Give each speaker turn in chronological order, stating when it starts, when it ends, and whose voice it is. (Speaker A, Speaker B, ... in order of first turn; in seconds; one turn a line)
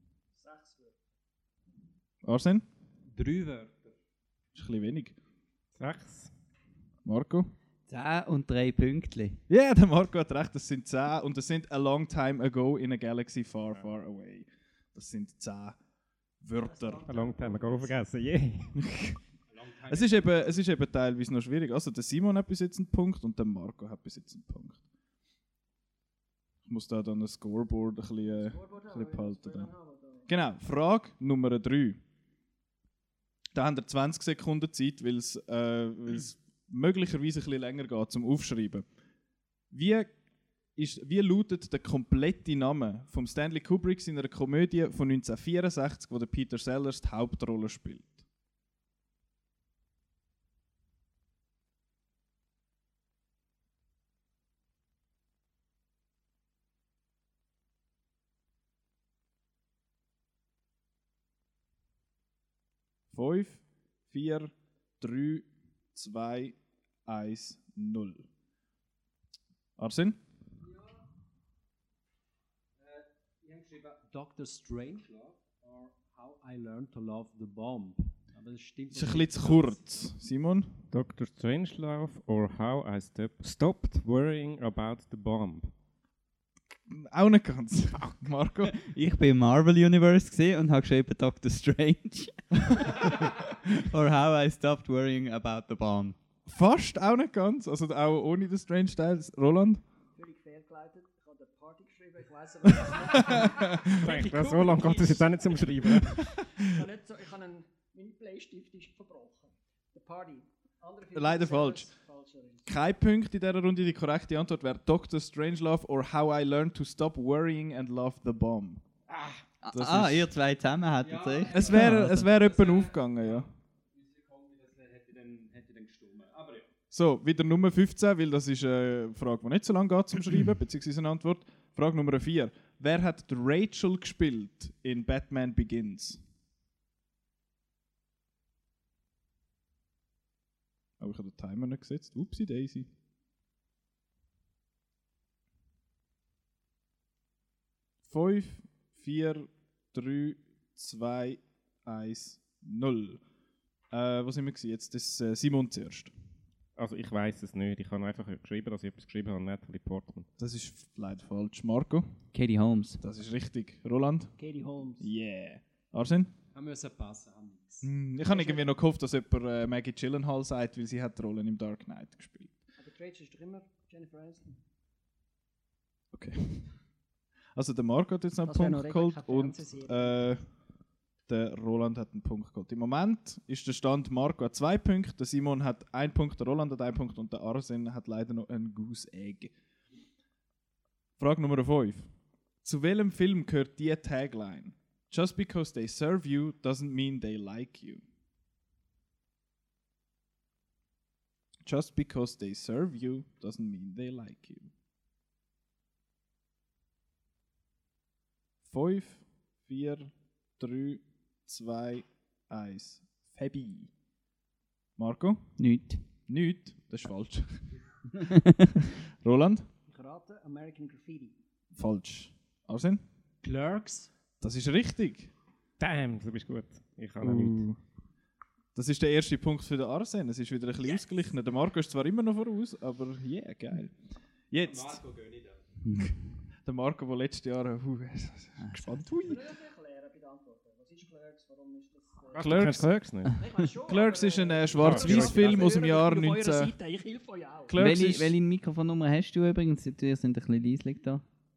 Speaker A: 0.3-1.0
Speaker B: 2.2-2.7
Speaker C: 3.1-3.9
Speaker B: 4.5-5.2
Speaker D: 5.8-6.3
Speaker B: 7.0-7.5
Speaker E: 7.9-9.4
Speaker B: 9.5-15.8
Speaker B: 16.4-17.1
Speaker A: 16.6-18.0
Speaker D: 17.1-18.8
Speaker B: 18.8-19.2
Speaker C: 19.5-20.6
Speaker B: 19.9-24.8
Speaker B: 26.6-29.7
Speaker A: 28.4-30.3
Speaker B: 30.3-32.0
Speaker B: 33.5-38.9
Speaker B: 39.7-40.1
Speaker B: 40.8-48.3
Speaker B: 63.1-68.3
Speaker B: 69.8-70.2
Speaker C: 70.6-71.0
Speaker C: 72.8-80.1
Speaker B: 78.9-80.8
Speaker D: 80.9-85.7
Speaker B: 86.9-88.8
Speaker E: 88.7-93.3
Speaker E: 93.9-96.2
Speaker B: 96.5-99.8
Speaker A: 100.2-105.3
Speaker B: 103.3-104.1
Speaker D: 103.9-106.2
Speaker B: 105.9-106.4
Speaker A: 106.5-112.8
Speaker B: 111.1-111.9
Speaker B: 112.7-118.8
Speaker E: 119.6-122.2
Speaker B: 119.7-120.3
Speaker C: 121.0-126.7
Speaker B: 121.5-123.5
Speaker B: 126.9-136.2
Speaker B: 141.0-142.9
Speaker B: 148.1-153.2
Speaker B: 153.9-156.1
Speaker D: 156.8-160.3
Speaker B: 160.4-162.2
Speaker E: 162.3-163.0
Speaker B: 163.0-164.3
Speaker A: 164.4-165.1
Speaker B: 165.0-166.3
Speaker C: 166.5-167.9
Speaker B: 167.8-172.5
Speaker A: 168.3-168.7
Speaker A: 172.8-174.6
Speaker B: 176.1-176.8
Speaker B: 177.6-180.4
Speaker A: 178.4-180.2
Speaker B: 181.3-189.5
Speaker B: 191.2-192.1
Speaker B: 192.6-198.0
Speaker B: 201.6-204.7
Speaker B: 208.6-213.9
Speaker B: 215.0-215.6
Speaker E: 215.6-216.1
Speaker B: 216.2-217.8
Speaker B: 219.2-219.7
Speaker A: 219.9-221.4
Speaker B: 221.7-223.0
Speaker C: 223.4-224.0
Speaker B: 224.4-225.3
Speaker D: 225.8-227.7
Speaker B: 227.2-227.8
Speaker B: 228.8-234.0
Speaker B: 234.5-235.0
Speaker C: 234.6-235.7
Speaker E: 235.8-236.3
Speaker B: 236.0-239.4
Speaker E: 238.6-239.1
Speaker A: 239.2-242.5
Speaker B: 242.3-243.2
Speaker D: 242.3-243.3
Speaker A: 243.4-247.8
Speaker B: 243.8-246.8
Speaker D: 244.8-245.7
Speaker B: 247.7-248.3
Speaker E: 247.8-251.2